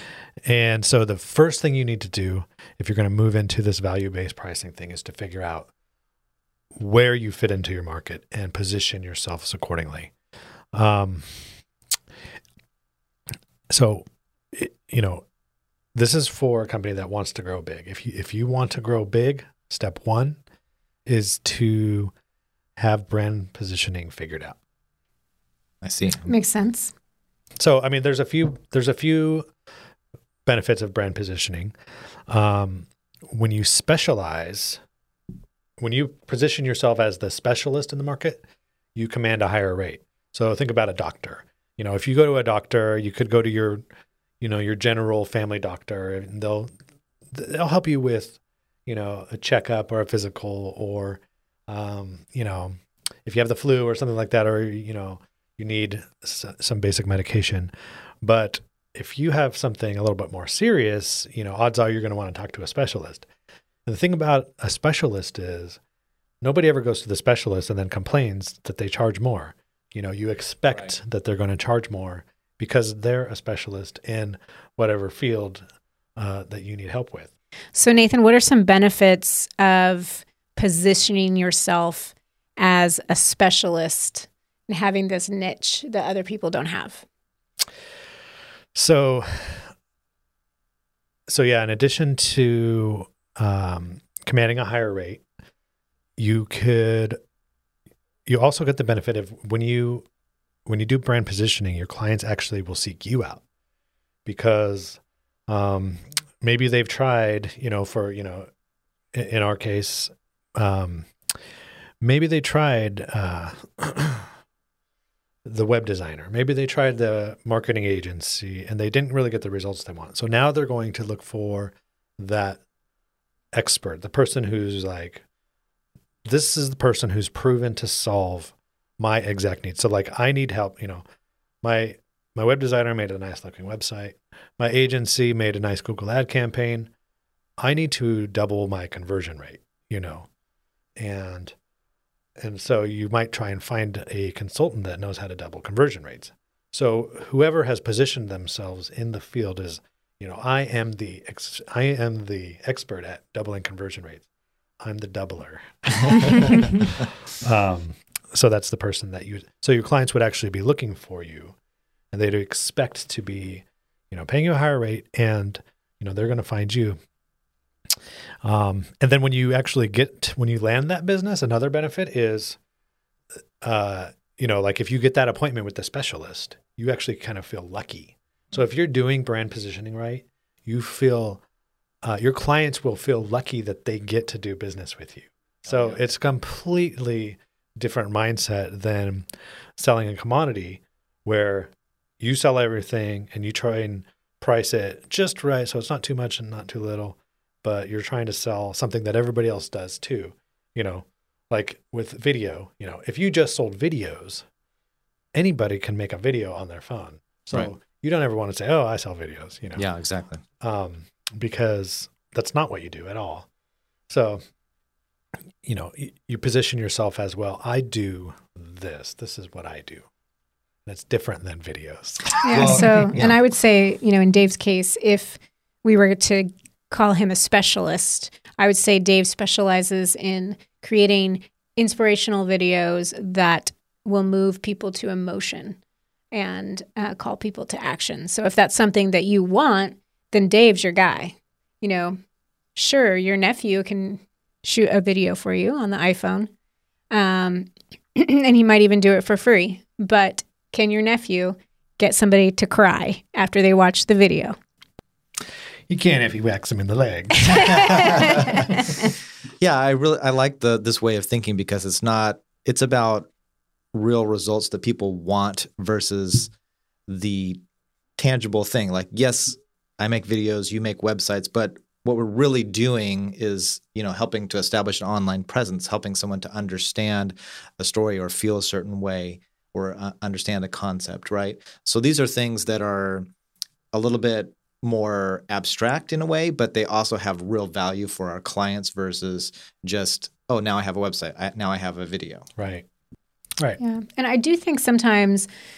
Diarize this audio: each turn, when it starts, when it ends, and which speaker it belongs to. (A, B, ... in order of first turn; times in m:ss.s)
0:00.4-0:05.7 A
0:06.7-0:10.1 A
0:10.7-0:11.5 A
0:13.7-0:15.2 A
0:15.9-0:20.4 A
0:21.0-0:22.1 A
0:22.8-0:24.6 A
0:25.8-0:26.2 B
0:26.2-0:26.9 C
0:27.6-0:29.5 A
0:30.4-0:31.7 A
0:32.3-0:34.8 A
0:35.8-0:38.4 A
0:38.9-0:43.8 A
0:44.4-0:46.7 A
0:47.3-1:03.3 A
1:03.8-1:05.8 A
1:06.4-1:15.6 A
1:16.2-1:17.3 A
1:17.7-1:27.0 C
1:28.7-1:29.7 A
1:31.3-1:35.2 A
1:36.2-1:37.2 A
1:38.2-1:40.0 A
1:40.6-1:43.4 A
1:44.2-1:48.5 A
1:49.1-1:51.1 A
1:52.0-1:54.3 A
1:55.4-2:02.6 A
2:03.5-2:05.2 A
2:06.2-2:11.0 A
2:11.6-2:16.9 A
2:17.6-2:20.3 A
2:21.0-2:21.5 A
2:22.4-2:34.2 A
2:34.8-2:41.6 A
2:42.1-2:47.0 A
2:48.4-2:52.6 A
2:53.6-3:01.4 A
3:02.0-3:24.4 A
3:05.7-3:06.0 B
3:25.3-3:29.8 A
3:29.8-3:30.4 B
3:30.6-3:33.5 A
3:34.1-3:34.4 A
3:35.6-3:40.1 A
3:40.8-3:43.0 A
3:42.4-3:55.8 C
3:42.5-3:43.4 B
3:56.3-4:02.2 C
4:02.7-4:06.5 C
4:07.1-4:14.6 C
4:15.9-4:18.7 A
4:17.5-4:19.1 C
4:19.6-4:23.3 B
4:23.9-4:26.5 B
4:27.1-4:27.6 B
4:28.2-4:43.2 B
4:43.9-4:52.5 B
4:52.6-4:52.8 A
4:53.8-4:55.5 C